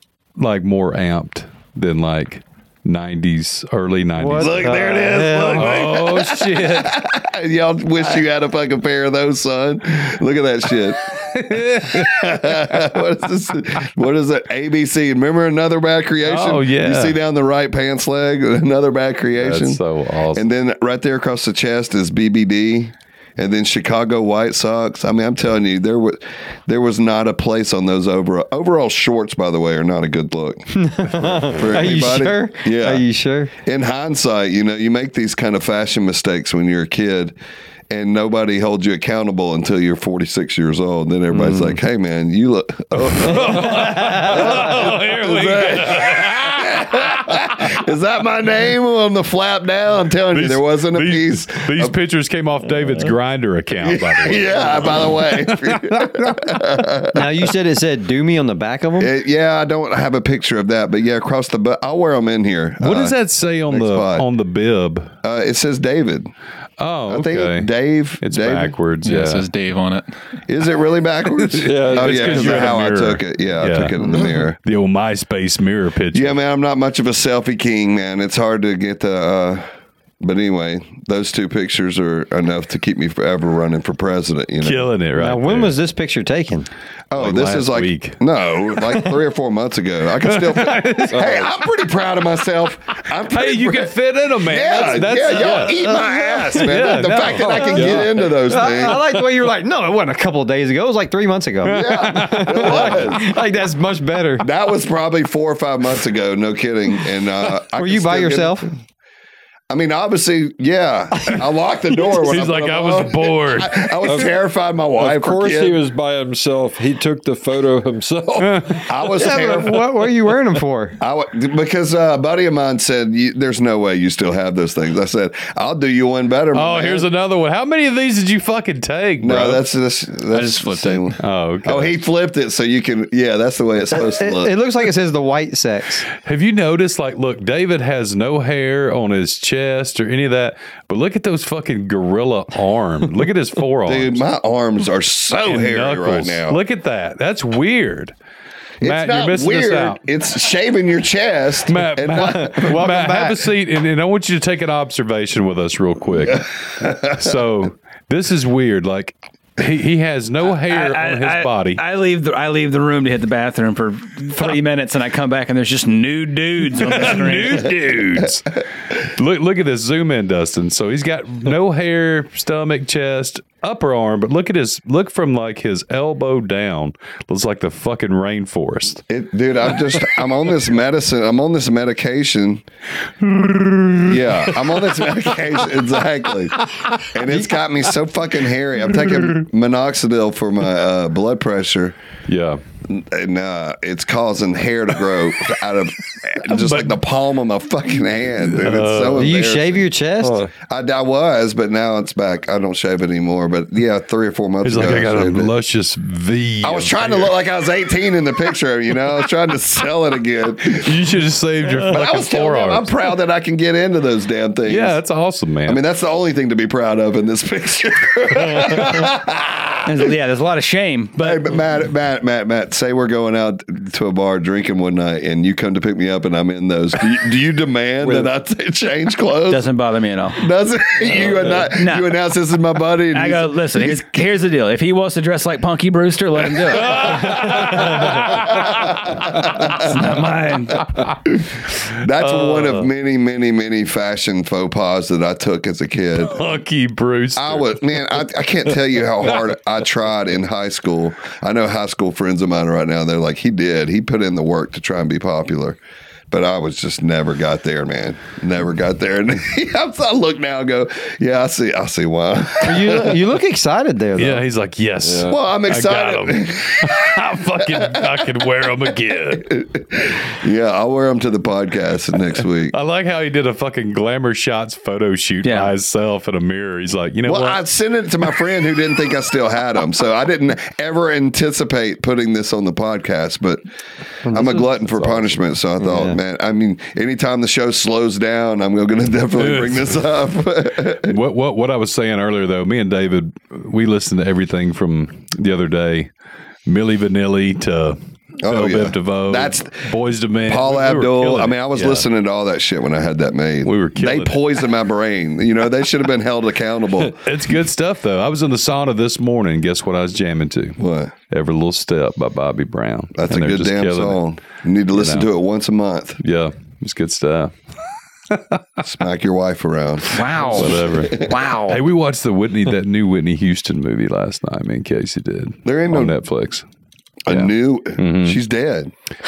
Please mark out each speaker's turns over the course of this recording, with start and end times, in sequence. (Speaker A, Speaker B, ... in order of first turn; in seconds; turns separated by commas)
Speaker A: 0.4-4.8, Speaker B: 4.2-5.9, Speaker C: 4.4-19.8, Speaker A: 5.5-6.9, Speaker A: 11.2-12.5, Speaker A: 16.2-17.2, Speaker A: 19.4-20.4, Speaker C: 20.3-33.1, Speaker B: 30.8-33.5, Speaker C: 33.6-37.4, Speaker C: 37.9-51.9, Speaker A: 41.4-41.7, Speaker A: 43.1-46.7, Speaker A: 50.3-56.4, Speaker C: 53.8-57.2, Speaker B: 57.1-59.1, Speaker C: 59.0-64.3, Speaker A: 62.8-65.1, Speaker C: 65.2-66.3, Speaker A: 66.8-69.5, Speaker C: 67.1-68.8, Speaker D: 69.0-70.1, Speaker C: 70.5-74.6, Speaker A: 71.4-76.4, Speaker E: 71.6-72.8, Speaker C: 76.1-79.6, Speaker C: 80.2-84.9, Speaker A: 84.6-85.8, Speaker B: 85.2-86.7, Speaker C: 87.1-99.0, Speaker A: 87.2-88.2, Speaker A: 90.2-91.3, Speaker E: 91.1-91.4, Speaker A: 93.3-97.9, Speaker B: 95.8-96.6, Speaker B: 97.3-104.5, Speaker E: 97.7-98.2, Speaker C: 101.6-103.3, Speaker A: 101.7-103.1, Speaker C: 104.4-108.7, Speaker B: 107.7-108.7, Speaker C: 109.7-115.8, Speaker A: 112.0-114.0, Speaker E: 115.0-118.8, Speaker A: 118.5-118.8, Speaker C: 118.9-119.9, Speaker B: 119.2-121.0, Speaker C: 121.0-127.1, Speaker A: 126.5-129.7, Speaker C: 129.2-134.5, Speaker D: 130.3-131.1, Speaker A: 131.2-132.0, Speaker B: 133.9-136.1, Speaker A: 136.2-144.2, Speaker C: 143.9-146.6, Speaker A: 145.4-148.1, Speaker C: 148.8-153.3, Speaker A: 148.8-150.0, Speaker A: 151.7-156.5, Speaker B: 152.3-153.3, Speaker A: 157.0-161.8, Speaker F: 160.6-167.8, Speaker A: 166.7-168.4, Speaker A: 169.1-179.0, Speaker C: 179.1-182.6, Speaker A: 183.2-184.2, Speaker C: 184.0-186.6, Speaker C: 187.1-191.9, Speaker A: 192.3-192.6, Speaker C: 192.9-199.9, Speaker A: 196.5-196.9, Speaker A: 198.5-199.4, Speaker B: 199.1-200.4, Speaker E: 200.2-200.5, Speaker C: 200.6-205.5, Speaker A: 204.6-207.4, Speaker C: 206.6-210.9, Speaker A: 210.7-213.0, Speaker C: 211.7-215.0, Speaker A: 214.6-215.8, Speaker C: 215.6-220.0, Speaker F: 219.8-221.4, Speaker C: 221.2-229.7, Speaker F: 229.5-230.4, Speaker C: 230.4-234.1, Speaker F: 231.6-232.1, Speaker F: 233.1-237.9, Speaker A: 236.7-239.6, Speaker C: 238.2-239.9, Speaker F: 239.7-240.9, Speaker C: 241.3-246.4, Speaker A: 242.2-242.9, Speaker A: 246.3-247.9, Speaker C: 247.4-255.8, Speaker C: 256.3-263.2, Speaker B: 262.6-264.4, Speaker A: 264.2-269.5, Speaker C: 265.2-267.2, Speaker C: 267.7-268.2, Speaker C: 269.5-272.7, Speaker A: 272.7-277.6, Speaker F: 275.4-275.7, Speaker C: 277.2-283.6, Speaker C: 284.3-291.1, Speaker B: 284.3-284.9, Speaker B: 285.8-286.2, Speaker A: 289.3-290.0, Speaker A: 291.0-296.1, Speaker A: 296.6-302.1, Speaker C: 298.4-299.9, Speaker C: 300.4-307.2, Speaker A: 303.6-304.4, Speaker A: 307.2-314.2, Speaker C: 310.8-311.1, Speaker C: 313.1-316.2, Speaker A: 314.9-315.3, Speaker A: 316.2-317.6, Speaker A: 318.3-318.6, Speaker C: 318.9-321.4, Speaker F: 320.1-321.8, Speaker A: 320.5-326.6, Speaker C: 325.6-326.1, Speaker C: 327.3-328.9, Speaker A: 327.3-328.4